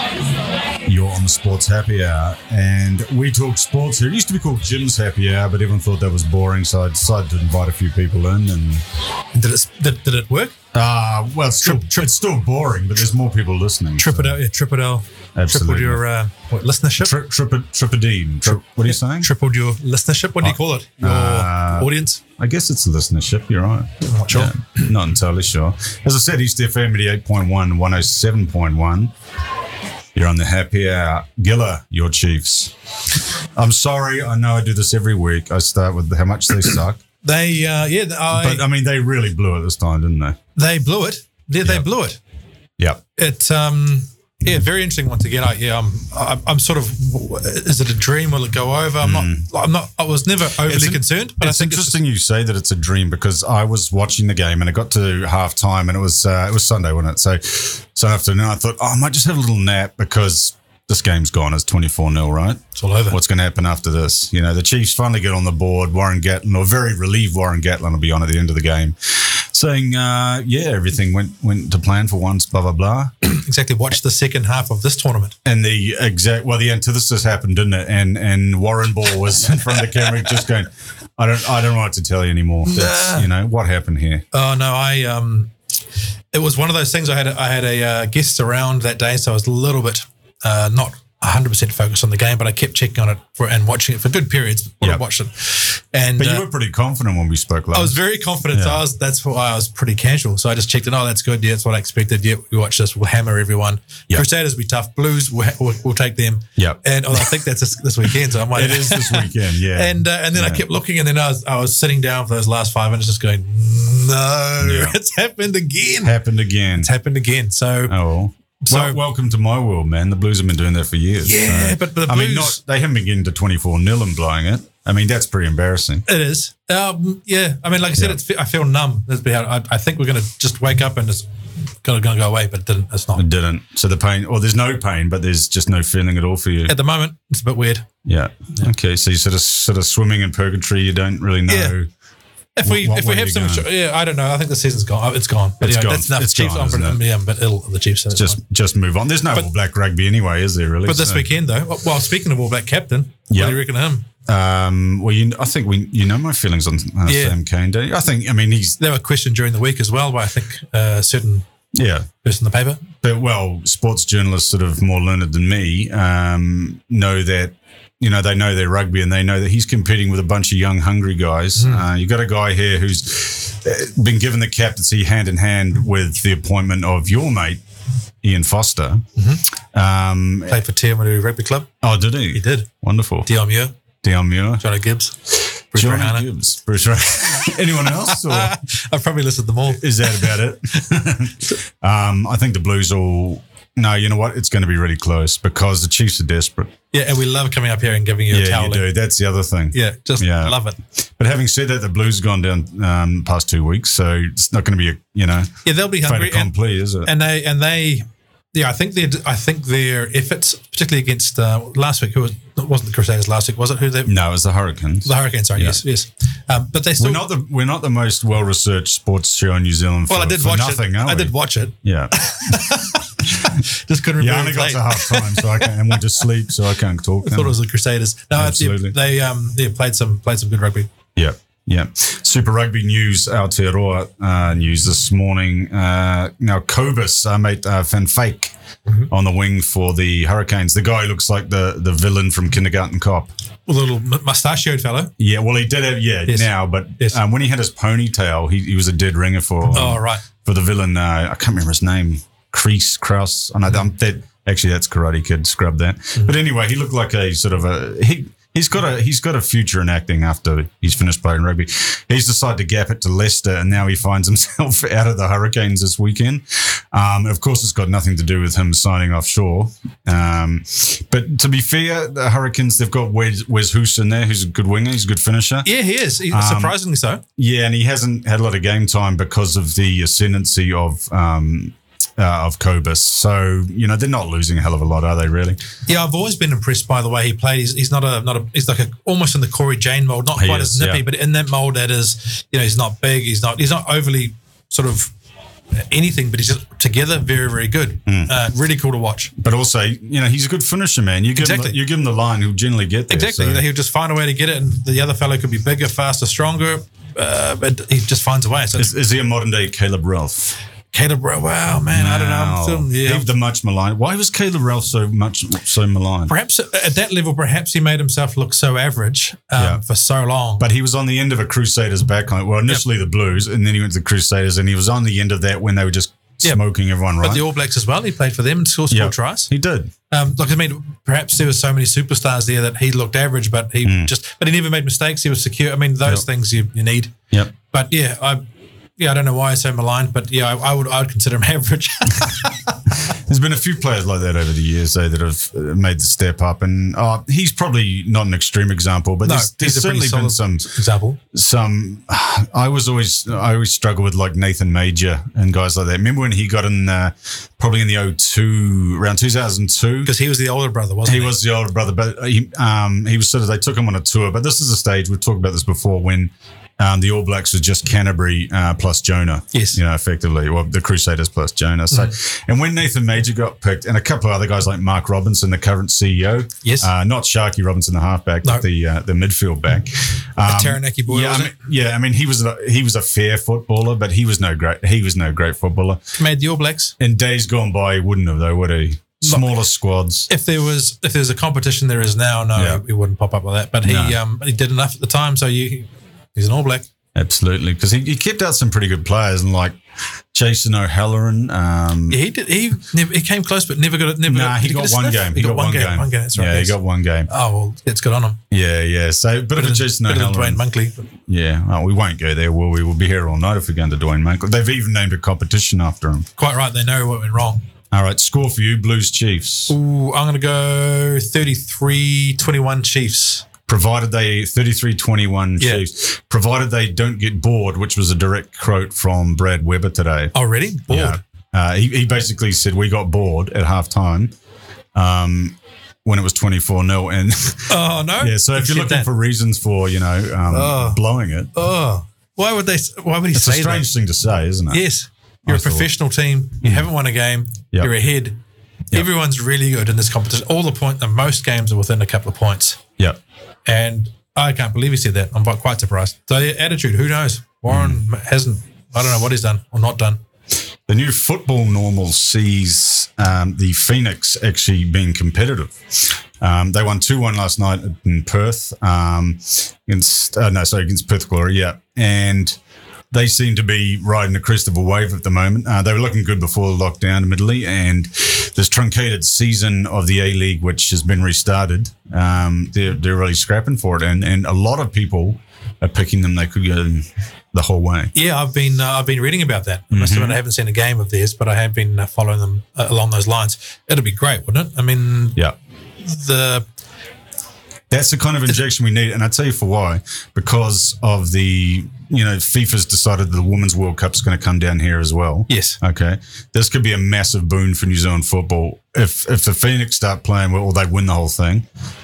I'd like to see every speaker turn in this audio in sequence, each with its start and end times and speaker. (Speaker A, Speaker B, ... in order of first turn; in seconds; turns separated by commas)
Speaker A: 0.8-8.8, Speaker B: 9.3-10.5, Speaker A: 10.7-14.4, Speaker B: 11.6-12.1, Speaker B: 14.0-17.2, Speaker A: 15.4-16.0, Speaker A: 17.0-19.3, Speaker B: 18.5-22.2, Speaker A: 20.4-29.1, Speaker B: 24.0-24.9, Speaker A: 30.1-32.7, Speaker A: 33.5-37.0, Speaker B: 37.2-38.6, Speaker A: 38.3-40.4, Speaker B: 40.5-42.2, Speaker B: 43.2-52.0, Speaker A: 49.0-49.5, Speaker A: 50.6-73.1, Speaker B: 62.8-63.2, Speaker B: 73.2-75.3, Speaker A: 75.4-84.2, Speaker B: 82.6-83.3, Speaker B: 84.3-85.5, Speaker B: 86.3-96.5, Speaker A: 96.2-98.0, Speaker B: 97.7-116.1, Speaker A: 98.5-98.8, Speaker A: 106.6-107.2, Speaker A: 108.4-110.6, Speaker A: 114.6-114.9, Speaker A: 116.0-116.9, Speaker B: 116.8-117.9, Speaker A: 117.9-126.0, Speaker B: 118.6-119.0, Speaker B: 121.2-122.6, Speaker B: 126.1-131.3, Speaker B: 131.8-133.2, Speaker A: 133.1-136.8, Speaker B: 136.7-137.9, Speaker A: 138.0-141.9, Speaker B: 141.5-141.7, Speaker B: 142.6-148.4, Speaker A: 142.6-143.7, Speaker A: 145.6-147.0, Speaker A: 148.1-151.2, Speaker B: 150.8-154.1, Speaker A: 153.3-153.6, Speaker A: 154.2-158.8, Speaker B: 157.0-157.3, Speaker B: 158.8-161.4, Speaker A: 161.7-162.1, Speaker B: 162.2-162.9, Speaker A: 163.0-177.6, Speaker B: 171.6-171.9, Speaker A: 178.2-179.1, Speaker B: 179.2-179.4, Speaker A: 179.7-180.6, Speaker B: 180.5-181.7, Speaker A: 181.8-183.3, Speaker B: 182.3-182.7, Speaker B: 183.2-183.8, Speaker A: 184.0-184.7, Speaker B: 184.6-186.3, Speaker A: 185.3-188.6, Speaker B: 187.8-190.4, Speaker A: 189.7-196.7, Speaker B: 196.9-198.9, Speaker A: 198.3-207.1, Speaker B: 199.7-200.8, Speaker B: 205.6-206.5, Speaker B: 207.0-214.2, Speaker A: 214.0-215.8, Speaker B: 215.0-217.2, Speaker A: 217.0-223.6, Speaker B: 220.1-226.0, Speaker A: 224.2-227.6, Speaker B: 227.2-230.9, Speaker A: 228.3-228.9, Speaker A: 231.2-238.5, Speaker A: 239.1-243.3, Speaker B: 243.7-245.1, Speaker A: 245.2-275.7, Speaker B: 246.3-247.2, Speaker B: 249.7-250.2, Speaker B: 275.6-277.2, Speaker A: 276.3-276.8, Speaker A: 277.4-285.6, Speaker B: 285.9-295.1, Speaker A: 290.4-291.1, Speaker B: 295.7-299.3, Speaker A: 298.1-298.3, Speaker A: 299.4-303.6, Speaker B: 301.4-301.8, Speaker B: 303.1-308.9, Speaker A: 308.8-310.6, Speaker B: 310.9-313.3, Speaker A: 311.9-316.3, Speaker B: 316.3-320.7, Speaker A: 319.6-319.8, Speaker A: 320.6-327.4, Speaker B: 327.2-329.5, Speaker A: 328.9-329.9, Speaker B: 330.1-337.1, Speaker A: 333.8-334.1, Speaker B: 337.7-338.4, Speaker B: 339.0-342.8, Speaker A: 342.9-350.8, Speaker B: 349.2-351.2, Speaker A: 351.3-360.1, Speaker B: 360.1-361.4, Speaker A: 361.1-386.2, Speaker B: 369.5-369.8, Speaker B: 376.6-376.9, Speaker B: 380.4-381.5, Speaker B: 386.2-386.9, Speaker A: 387.0-390.3, Speaker B: 389.2-389.5, Speaker B: 390.3-396.9, Speaker A: 392.6-392.8, Speaker A: 393.8-394.2, Speaker A: 397.1-399.8, Speaker A: 400.3-402.2, Speaker B: 402.1-406.8, Speaker A: 404.2-407.3, Speaker B: 407.3-408.4, Speaker A: 408.5-410.6, Speaker B: 409.6-411.1, Speaker A: 411.3-416.3, Speaker B: 416.4-417.6, Speaker A: 417.9-419.8, Speaker B: 419.7-423.5, Speaker A: 423.7-430.3, Speaker B: 425.6-425.8, Speaker B: 430.3-431.2, Speaker A: 430.9-434.3, Speaker A: 434.9-441.5, Speaker B: 437.7-439.1, Speaker B: 440.5-441.0, Speaker B: 441.6-443.9, Speaker A: 443.3-444.8, Speaker B: 444.7-448.4, Speaker A: 445.4-445.9, Speaker A: 446.6-446.9, Speaker B: 448.9-452.8, Speaker B: 453.6-460.2, Speaker A: 457.7-458.0, Speaker A: 460.9-472.6, Speaker A: 473.1-488.1, Speaker B: 488.1-495.4, Speaker A: 489.9-490.4, Speaker B: 496.0-496.6, Speaker A: 497.9-511.6, Speaker B: 505.5-505.8